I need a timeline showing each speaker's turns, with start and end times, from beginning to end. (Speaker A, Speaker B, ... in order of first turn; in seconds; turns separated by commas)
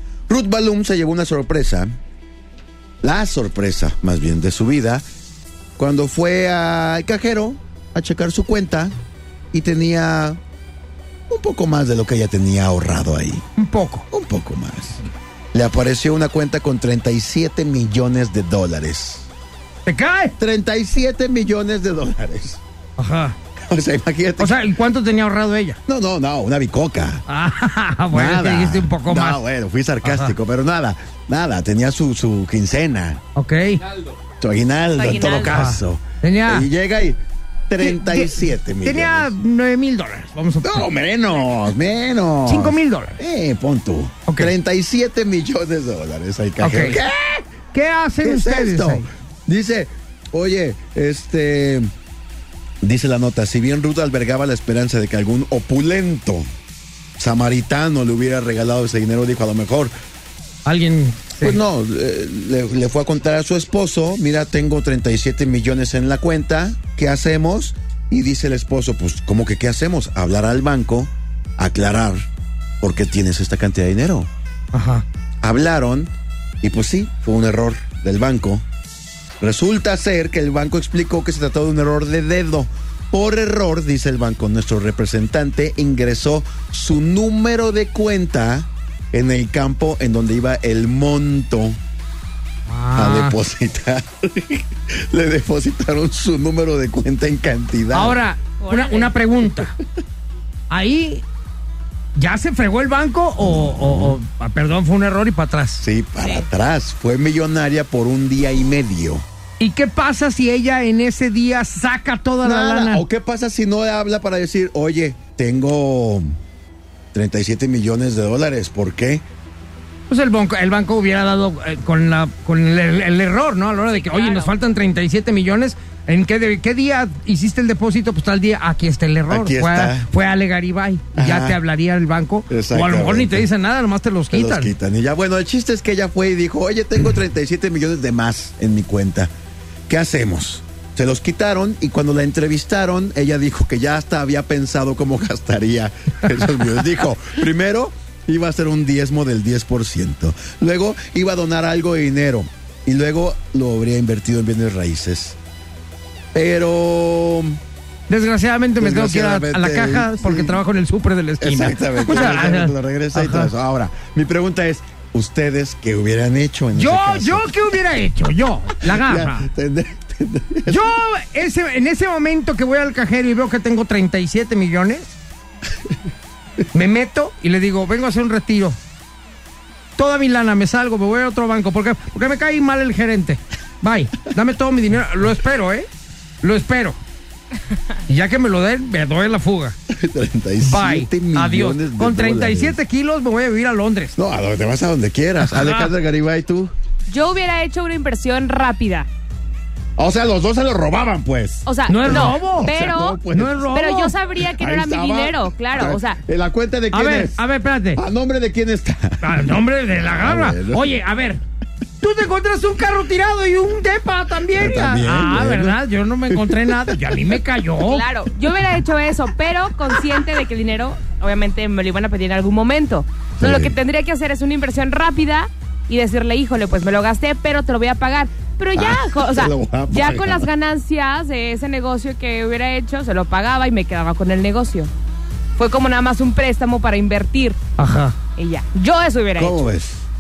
Speaker A: 0.3-1.9, Speaker A: 3.0-5.0, Speaker A: 5.8-8.9, Speaker A: 9.5-10.4, Speaker A: 11.3-13.4, Speaker B: 13.6-14.1, Speaker A: 14.1-15.0, Speaker A: 15.5-19.3, Speaker B: 19.9-20.4, Speaker A: 20.4-22.6, Speaker B: 23.0-23.4, Speaker A: 23.6-24.6, Speaker B: 24.4-25.8, Speaker A: 25.9-27.2, Speaker B: 27.3-29.4, Speaker A: 28.1-33.2, Speaker B: 30.0-30.3, Speaker B: 33.4-33.8, Speaker A: 34.4-39.3, Speaker C: 35.0-35.6, Speaker B: 35.4-36.7, Speaker B: 37.8-40.9, Speaker A: 40.6-47.5, Speaker B: 42.5-43.2, Speaker B: 44.3-44.5, Speaker B: 46.6-47.0, Speaker B: 47.7-49.1, Speaker A: 48.2-51.9, Speaker A: 52.8-56.5, Speaker A: 57.2-59.9, Speaker B: 60.6-61.6, Speaker A: 61.4-72.3, Speaker A: 72.8-74.3, Speaker B: 74.7-75.0, Speaker A: 75.4-76.1, Speaker A: 76.6-78.7, Speaker A: 79.4-91.8, Speaker B: 92.7-93.4, Speaker A: 93.0-98.2, Speaker B: 97.9-99.8, Speaker C: 98.6-99.1, Speaker B: 100.7-101.2, Speaker B: 102.2-105.8, Speaker A: 103.5-104.2, Speaker A: 105.8-109.2, Speaker B: 109.6-113.0, Speaker A: 112.4-116.3, Speaker A: 117.1-119.2, Speaker B: 120.1-134.7, Speaker C: 123.9-124.5, Speaker A: 129.3-130.1, Speaker A: 131.2-131.6, Speaker A: 132.5-133.5, Speaker A: 134.3-139.3, Speaker A: 139.9-155.4, Speaker A: 156.3-157.6, Speaker B: 158.1-163.5, Speaker A: 158.8-160.6, Speaker A: 161.4-167.6, Speaker B: 166.7-169.5, Speaker A: 168.8-170.9, Speaker B: 170.7-175.2, Speaker B: 176.7-178.8, Speaker B: 180.0-185.9, Speaker B: 186.4-187.0, Speaker B: 188.1-189.8, Speaker A: 189.9-192.8, Speaker B: 190.6-194.2, Speaker A: 194.2-196.7, Speaker B: 195.4-195.9, Speaker C: 197.1-199.1, Speaker A: 200.0-203.7, Speaker C: 201.7-206.2, Speaker B: 201.9-202.7, Speaker B: 203.3-204.1, Speaker A: 204.4-207.4, Speaker B: 206.9-208.0, Speaker A: 207.9-210.9, Speaker B: 209.2-211.4, Speaker B: 212.0-218.0, Speaker A: 214.5-217.2, Speaker C: 217.8-234.9, Speaker A: 223.4-223.8, Speaker A: 228.8-230.5, Speaker C: 235.6-237.6, Speaker B: 237.8-238.2, Speaker C: 238.4-239.6, Speaker A: 239.4-240.1